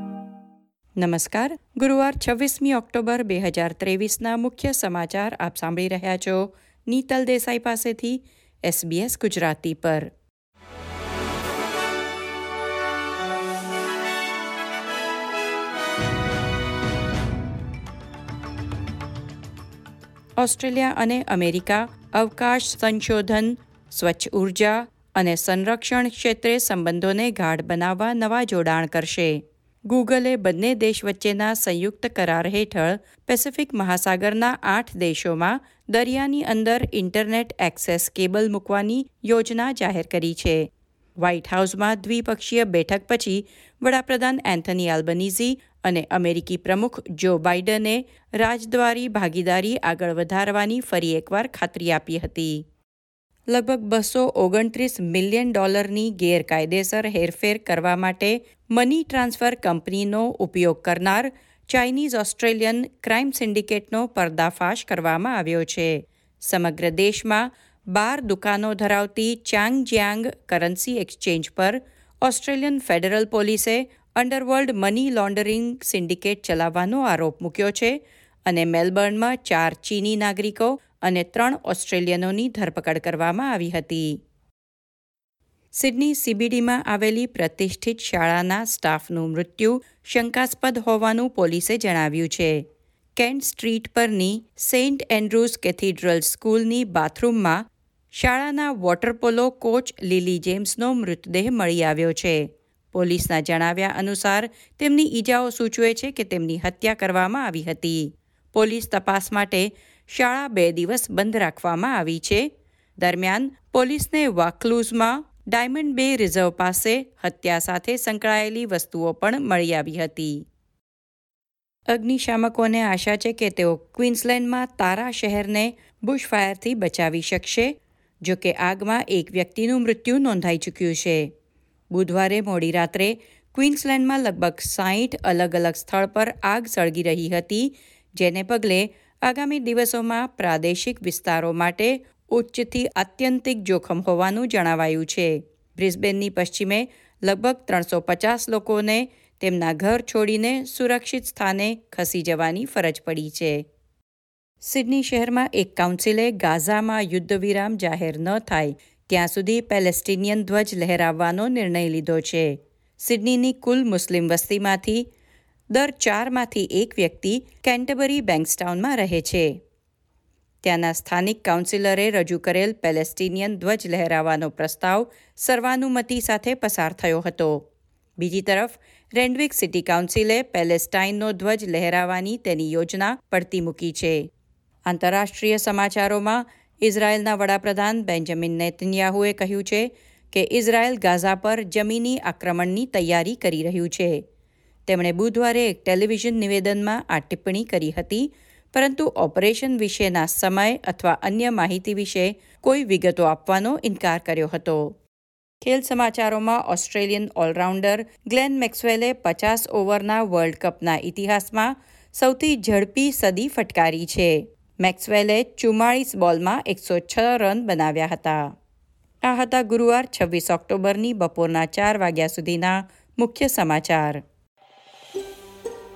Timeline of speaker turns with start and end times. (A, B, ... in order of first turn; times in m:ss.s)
0:01.0-0:10.1 A
0:20.4-0:40.7 A
0:41.2-0:52.6 A
0:53.5-1:24.2 A
1:25.7-1:32.6 A
1:33.2-1:52.5 A
1:53.0-2:00.4 A
2:01.9-2:11.3 A
2:11.9-2:33.6 A
2:34.6-2:45.1 A
2:45.7-2:49.6 A
2:50.6-2:57.7 A
2:58.2-3:04.3 A
3:04.9-3:14.2 A
3:14.9-3:25.0 A
3:25.6-3:38.5 A
3:39.2-3:44.2 A